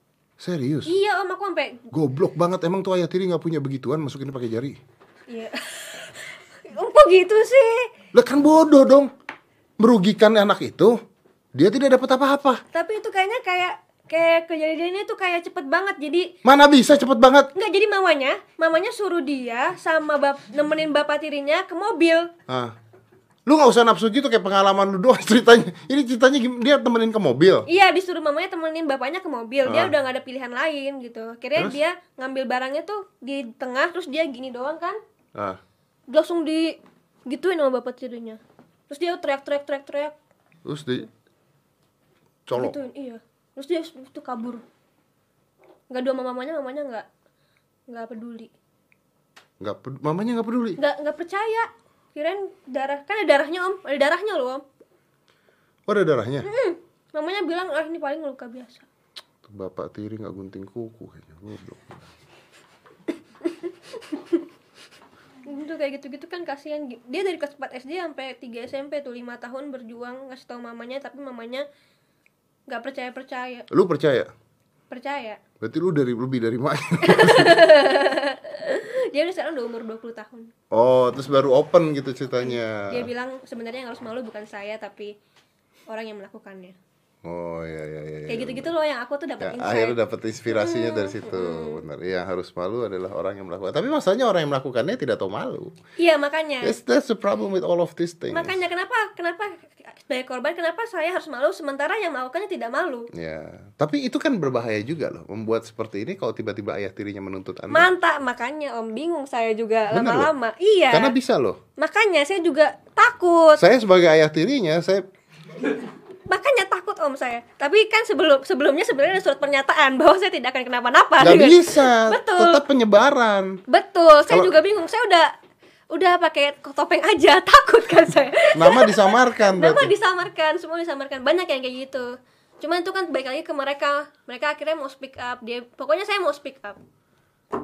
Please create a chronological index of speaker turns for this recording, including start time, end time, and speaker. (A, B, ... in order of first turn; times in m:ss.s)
0:00.4-0:00.9 A
0:00.9-0:01.9 B
0:01.9-0:04.8 A
0:05.3-0:07.9 B
0:08.1-0:09.1 A
0:09.8-0:11.0 A
0:11.6-0:12.6 A
0:12.7-0:16.3 B
0:16.4-0:17.5 A
0:17.6-0:22.3 B
0:22.5-0:22.7 A
0:23.5-0:27.7 A
0:27.7-0:35.0 B
0:29.6-0:29.9 A
0:36.1-0:40.2 B
0:40.7-0:41.1 A
0:42.5-0:42.8 A
0:42.6-0:44.6 B
0:45.9-0:47.1 B
0:47.9-0:48.5 B
0:49.6-0:50.8 A
0:50.8-0:54.6 B
0:55.9-0:56.5 A
0:56.4-0:58.9 B
0:59.4-1:02.1 A
1:03.4-1:04.4 B
1:05.4-1:11.7 B
1:12.7-1:13.7 B
1:13.7-1:14.3 A
1:14.9-1:15.4 B
1:15.6-1:17.6 A
1:17.0-1:20.5 B
1:20.7-1:23.1 A
1:22.4-1:25.1 B
1:25.9-1:26.8 B
1:27.2-1:28.7 A
1:28.3-1:30.0 B
1:29.4-1:35.7 A
1:30.5-1:31.8 B
1:36.0-1:36.8 B
1:36.6-1:38.6 A
1:38.3-1:43.1 B
1:43.1-1:47.9 A
1:47.7-1:51.2 B
1:49.9-1:50.3 A
1:50.9-1:51.6 A
1:51.8-1:53.6 B
1:53.6-1:55.0 A
1:56.3-2:02.6 B
2:01.2-2:03.6 A
2:03.7-2:05.3 B
2:04.3-2:04.6 A
2:05.9-2:16.8 B
2:08.5-2:09.9 A